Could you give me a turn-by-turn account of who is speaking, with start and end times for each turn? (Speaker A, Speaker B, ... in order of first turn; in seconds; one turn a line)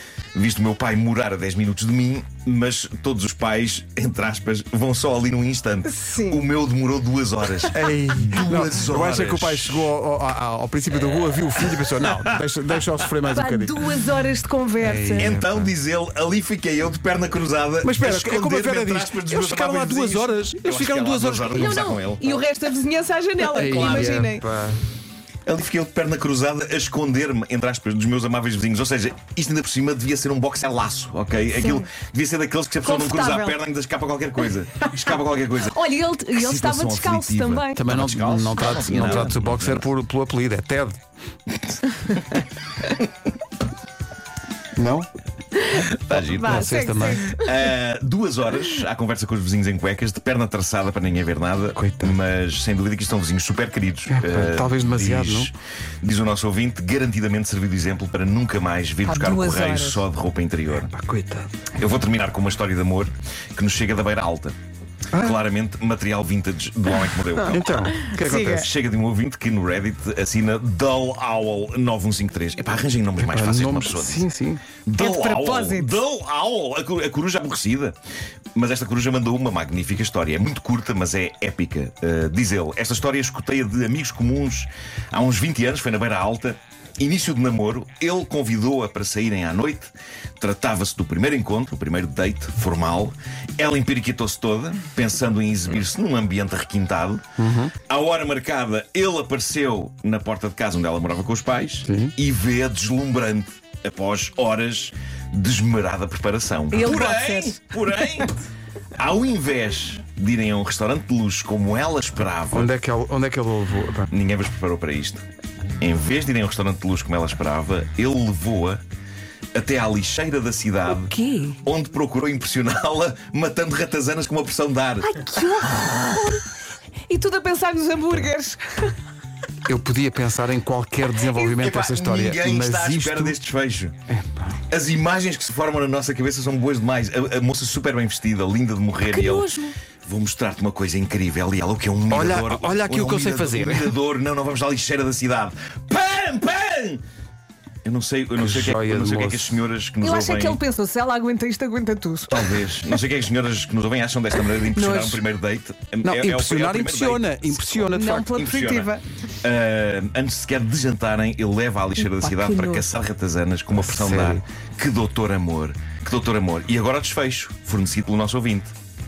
Speaker A: 0.3-9.9
Speaker B: 5.9-6.4
Speaker C: 7.7-13.8
Speaker A: 11.6-12.4
Speaker B: 13.3-15.3
Speaker C: 14.8-15.7
Speaker A: 15.2-22.4
Speaker C: 17.8-21.7
Speaker B: 21.5-24.4
Speaker C: 23.5-24.8
Speaker A: 23.6-24.2
Speaker A: 25.5-35.8
Speaker B: 31.5-31.9
Speaker B: 32.8-33.6
Speaker B: 35.6-37.9
Speaker A: 36.4-39.9
Speaker C: 37.8-41.0
Speaker B: 38.6-39.1
Speaker C: 44.8-45.1
Speaker B: 45.6-47.7
Speaker A: 46.1-60.9
Speaker C: 46.1-47.3
Speaker C: 51.8-52.2
Speaker C: 54.1-55.5
Speaker B: 59.0-60.0
Speaker C: 60.8-61.5
Speaker A: 61.8-64.6
Speaker C: 65.1-65.4
Speaker A: 65.1-74.3
Speaker B: 67.4-68.7
Speaker C: 67.5-68.7
Speaker C: 73.2-74.6
Speaker A: 74.8-78.0
Speaker B: 75.0-76.0
Speaker A: 78.6-97.2
Speaker C: 97.4-97.7
Speaker A: 97.9-108.3
Speaker C: 101.8-102.1
Speaker B: 106.7-107.6
Speaker A: 109.0-112.7
Speaker C: 112.5-114.1
Speaker A: 114.1-115.2
Speaker A: 115.8-118.8
Speaker A: 119.5-125.1
Speaker B: 120.9-121.6
Speaker B: 125.0-126.5
Speaker B: 127.1-128.9
Speaker C: 129.7-133.4
Speaker B: 131.3-131.6
Speaker A: 131.5-134.0
Speaker C: 134.1-134.6
Speaker A: 134.7-139.5
Speaker B: 139.1-139.8
Speaker A: 140.1-147.0
Speaker C: 142.1-143.9
Speaker A: 147.8-150.6
Speaker C: 148.4-149.6
Speaker B: 150.0-152.5
Speaker A: 152.3-158.9
Speaker B: 154.7-155.2
Speaker C: 156.0-158.3
Speaker B: 157.9-159.0
Speaker A: 159.4-168.7
Speaker B: 162.0-162.8
Speaker C: 163.7-164.4